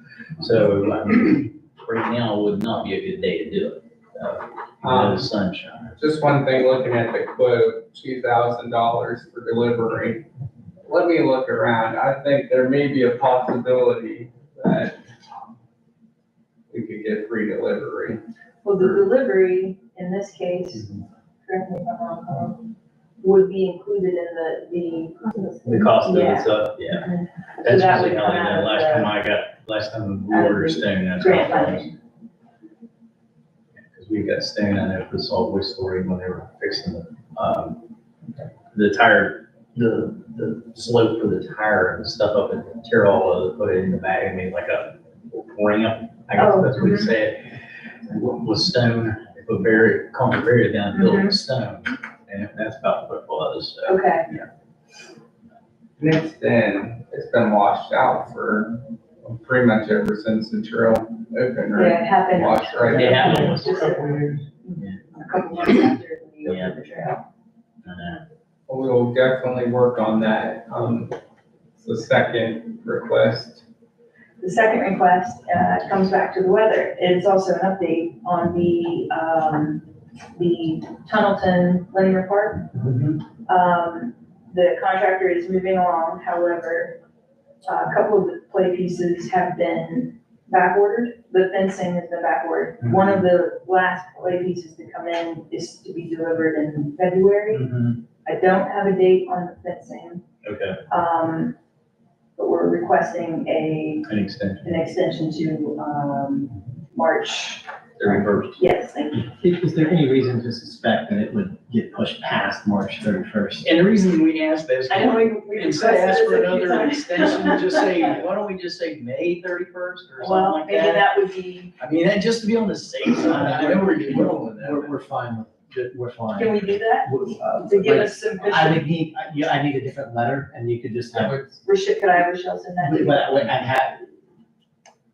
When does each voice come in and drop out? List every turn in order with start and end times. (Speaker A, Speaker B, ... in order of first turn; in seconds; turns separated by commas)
Speaker A: 0.4-6.0, Speaker B: 4.8-5.3, Speaker B: 6.0-10.2, Speaker B: 10.8-15.0, Speaker B: 16.7-18.2, Speaker C: 18.6-20.9, Speaker B: 18.8-19.0, Speaker A: 20.7-21.0, Speaker C: 21.4-22.6, Speaker C: 23.2-29.1, Speaker A: 25.6-27.1, Speaker A: 27.6-31.9, Speaker C: 30.3-31.9, Speaker A: 33.9-37.8, Speaker A: 38.7-47.5, Speaker C: 46.4-46.7, Speaker A: 48.1-54.5, Speaker C: 50.9-51.4, Speaker C: 53.9-54.3, Speaker B: 56.0-64.4, Speaker C: 61.8-67.2, Speaker A: 62.9-63.8, Speaker A: 66.4-66.8, Speaker A: 67.8-68.2, Speaker B: 68.7-71.1, Speaker B: 71.8-73.6, Speaker C: 74.4-82.7, Speaker A: 82.7-83.2, Speaker C: 83.5-87.0, Speaker C: 87.6-97.7, Speaker A: 92.8-93.2, Speaker A: 97.5-98.0, Speaker C: 98.2-100.2, Speaker A: 100.4-100.8, Speaker C: 100.9-101.5, Speaker C: 102.3-104.1, Speaker A: 104.0-104.7, Speaker C: 104.6-109.3, Speaker A: 108.0-108.6, Speaker D: 109.3-113.7, Speaker A: 113.6-121.1, Speaker C: 114.9-118.1, Speaker C: 120.2-121.7, Speaker A: 121.8-125.0, Speaker D: 123.2-131.4, Speaker C: 126.3-128.9, Speaker B: 131.1-131.6, Speaker C: 131.6-133.4, Speaker D: 132.8-134.0